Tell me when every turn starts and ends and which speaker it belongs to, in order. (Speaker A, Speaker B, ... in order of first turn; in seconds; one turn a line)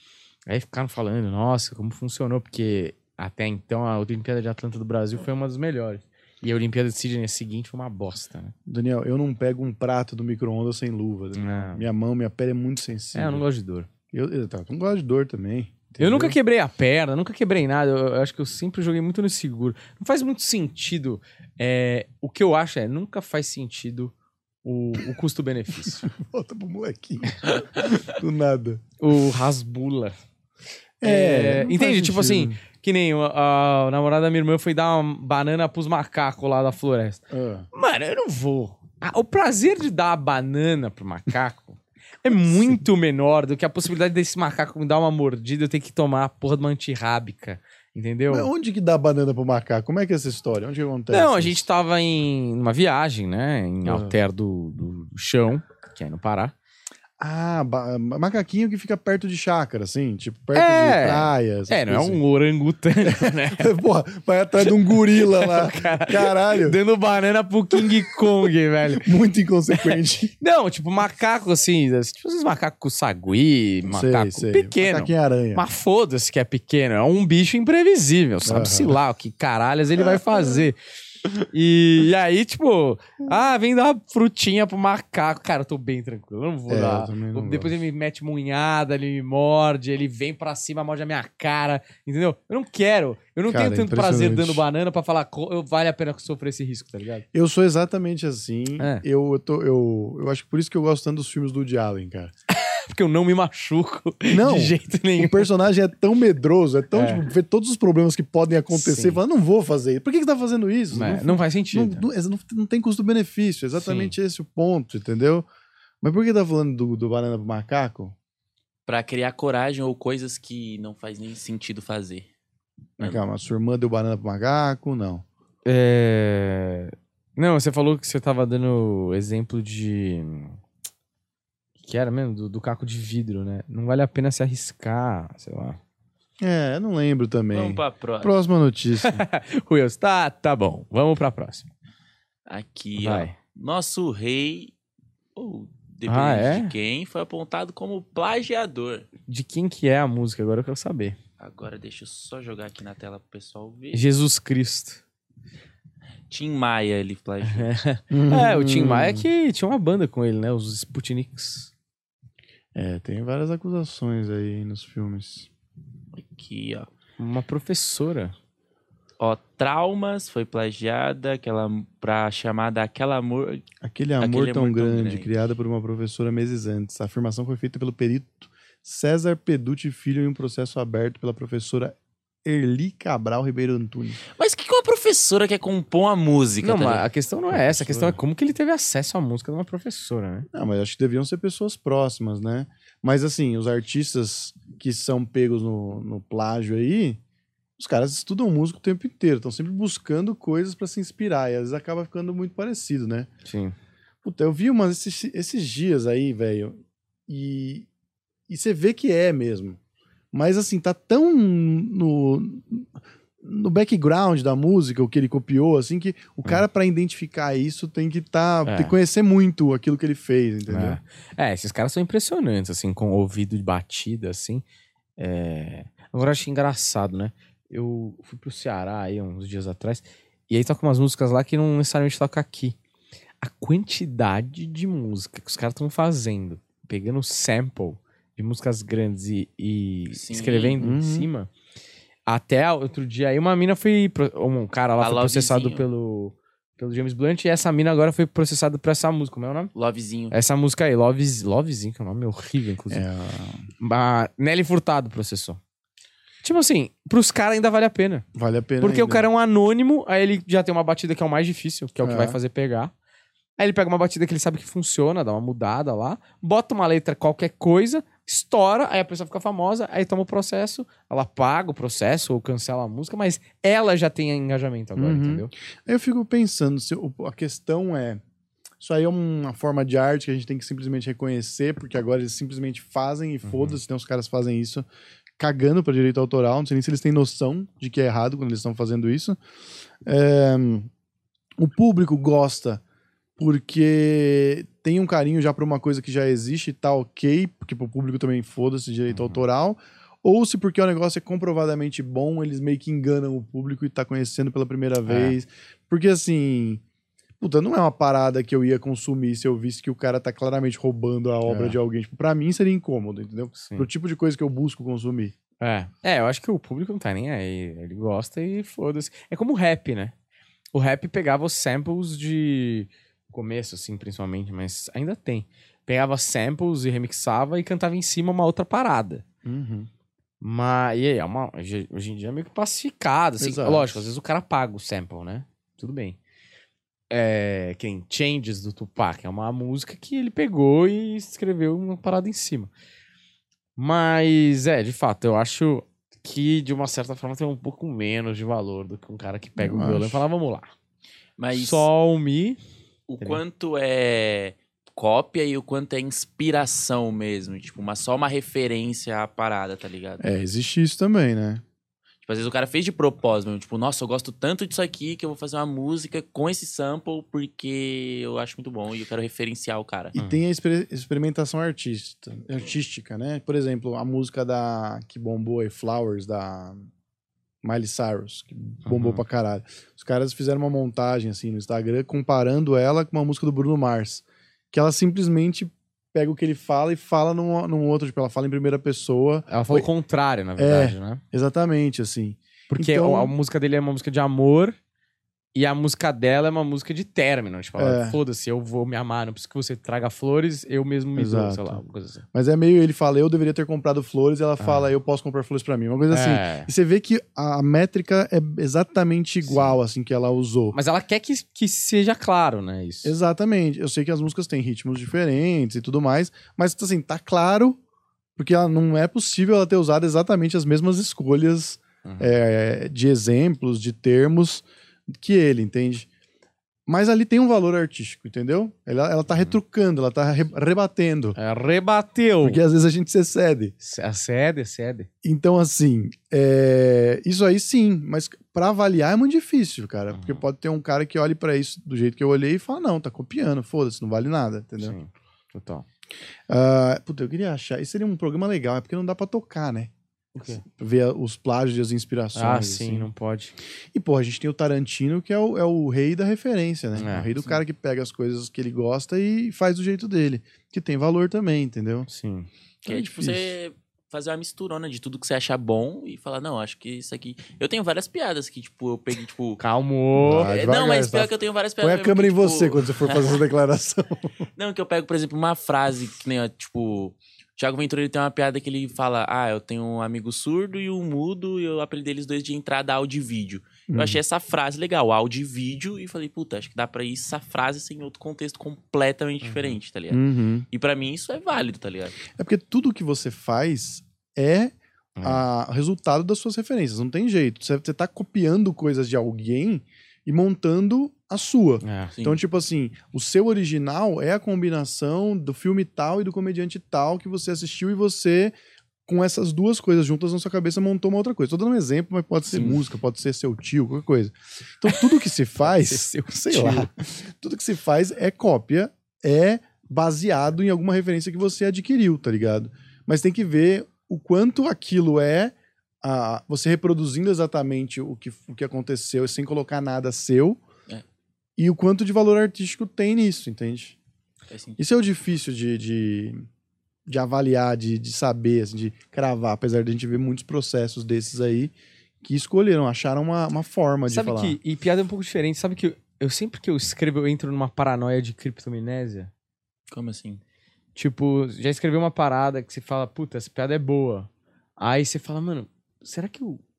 Speaker A: 0.5-8.5
Speaker B: 8.7-13.4
Speaker A: 11.3-11.9
Speaker A: 13.1-13.9
Speaker B: 14.1-16.4
Speaker A: 16.0-26.1
Speaker B: 25.8-28.8
Speaker A: 29.0-30.1
Speaker B: 31.0-32.6
Speaker A: 31.0-48.5
Speaker B: 37.3-37.7
Speaker B: 42.5-42.8
Speaker B: 48.3-51.6
Speaker A: 51.1-56.5
Speaker B: 53.8-54.1
Speaker B: 57.2-62.2
Speaker A: 60.5-63.7
Speaker B: 63.0-66.8
Speaker A: 64.6-69.1
Speaker B: 69.0-70.3
Speaker A: 69.8-80.8
Speaker B: 73.9-75.6
Speaker B: 78.4-79.0
Speaker B: 80.0-80.6
Speaker A: 81.5-97.2
Speaker B: 86.7-87.7
Speaker B: 93.5-94.6
Speaker B: 97.3-102.3
Speaker A: 102.5-105.5
Speaker B: 104.3-115.5
Speaker A: 106.9-107.2
Speaker A: 108.7-109.2
Speaker A: 110.9-112.0
Speaker A: 113.7-114.1
Speaker B: 116.0-118.1
Speaker C: 118.8-122.3
Speaker B: 123.0-125.2
Speaker A: 125.7-130.6
Speaker A: 131.8-135.8
Speaker B: 136.4-139.2
Speaker C: 137.5-138.4
Speaker A: 139.0-141.7
Speaker C: 142.5-144.7
Speaker A: 143.0-143.3
Speaker C: 145.3-149.1
Speaker A: 146.1-146.7
Speaker A: 149.3-151.2
Speaker C: 151.4-154.1
Speaker A: 153.9-155.0
Speaker C: 156.3-157.7
Speaker A: 157.4-161.7
Speaker B: 158.1-159.2
Speaker B: 162.7-165.5
Speaker C: 166.2-166.9
Speaker A: 167.2-168.3
Speaker C: 169.2-173.7
Speaker B: 173.8-184.2
Speaker C: 174.2-175.3
Speaker C: 184.4-187.1
Speaker A: 186.6-190.5
Speaker B: 187.5-188.2
Speaker B: 190.5-197.2
Speaker B: 197.8-203.3
Speaker A: 203.4-203.7
Speaker B: 204.2-207.9
Speaker B: 208.5-209.8
Speaker B: 210.3-221.0
Speaker A: 218.6-218.9
Speaker A: 220.7-224.6
Speaker A: 225.2-232.8
Speaker A: 233.4-241.5
Speaker C: 240.1-240.8
Speaker B: 240.8-241.3
Speaker A: 242.3-249.7
Speaker C: 245.0-245.8
Speaker C: 249.7-250.3
Speaker A: 250.3-253.1
Speaker B: 252.9-253.6
Speaker A: 253.8-255.6
Speaker A: 256.4-258.2
Speaker B: 258.3-259.3
Speaker A: 258.8-262.9
Speaker B: 262.0-262.4
Speaker A: 263.6-275.5
Speaker B: 275.0-278.2
Speaker B: 278.8-284.9
Speaker A: 283.4-283.8
Speaker B: 285.4-289.4
Speaker B: 290.0-290.9
Speaker B: 291.6-292.8
Speaker B: 293.4-306.8
Speaker A: 299.1-299.4
Speaker A: 305.0-305.4
Speaker B: 307.4-315.3
Speaker A: 311.4-311.8
Speaker A: 315.6-320.1
Speaker A: 320.7-329.2
Speaker B: 329.4-329.9
Speaker A: 330.4-336.2
Speaker B: 333.4-334.0
Speaker A: 337.1-342.7
Speaker A: 343.8-350.7
Speaker B: 349.6-350.2
Speaker C: 351.4-351.9
Speaker A: 351.5-352.6
Speaker C: 353.1-360.2
Speaker B: 360.2-361.6
Speaker C: 362.2-370.1
Speaker B: 370.1-376.9
Speaker B: 377.6-389.9
Speaker A: 378.8-379.2
Speaker A: 389.5-391.2
Speaker B: 390.6-393.3
Speaker A: 392.7-394.8
Speaker A: 395.5-402.2
Speaker B: 397.8-398.2
Speaker B: 401.1-401.8
Speaker B: 402.3-410.8
Speaker A: 404.6-404.9
Speaker A: 406.1-406.7
Speaker A: 409.4-409.8
Speaker A: 410.7-413.1
Speaker B: 413.0-417.8
Speaker B: 418.4-426.1
Speaker A: 422.0-422.3
Speaker B: 426.9-431.4
Speaker A: 431.4-432.6
Speaker B: 432.4-433.7
Speaker A: 433.8-435.1
Speaker B: 435.2-444.9
Speaker A: 440.1-440.4
Speaker A: 444.8-445.8
Speaker B: 446.5-449.9
Speaker A: 450.3-450.6
Speaker B: 450.4-453.1
Speaker A: 452.3-453.5
Speaker B: 453.9-462.1
Speaker A: 456.9-457.6
Speaker A: 462.1-462.5
Speaker B: 462.8-463.5
Speaker C: 462.9-469.6
Speaker A: 469.6-470.5
Speaker B: 470.2-474.4
Speaker C: 470.3-473.4
Speaker C: 474.6-492.2
Speaker B: 483.9-484.2
Speaker A: 489.4-489.8
Speaker B: 490.1-490.6
Speaker B: 492.3-508.5
Speaker A: 495.2-495.4
Speaker A: 501.8-502.1
Speaker B: 509.1-530.6
Speaker C: 512.5-512.8
Speaker A: 515.6-516.9
Speaker B: 531.6-534.0
Speaker C: 534.5-534.8
Speaker B: 534.8-536.5
Speaker B: 537.1-544.6
Speaker A: 544.1-549.3
Speaker C: 549.9-550.4
Speaker A: 550.9-556.6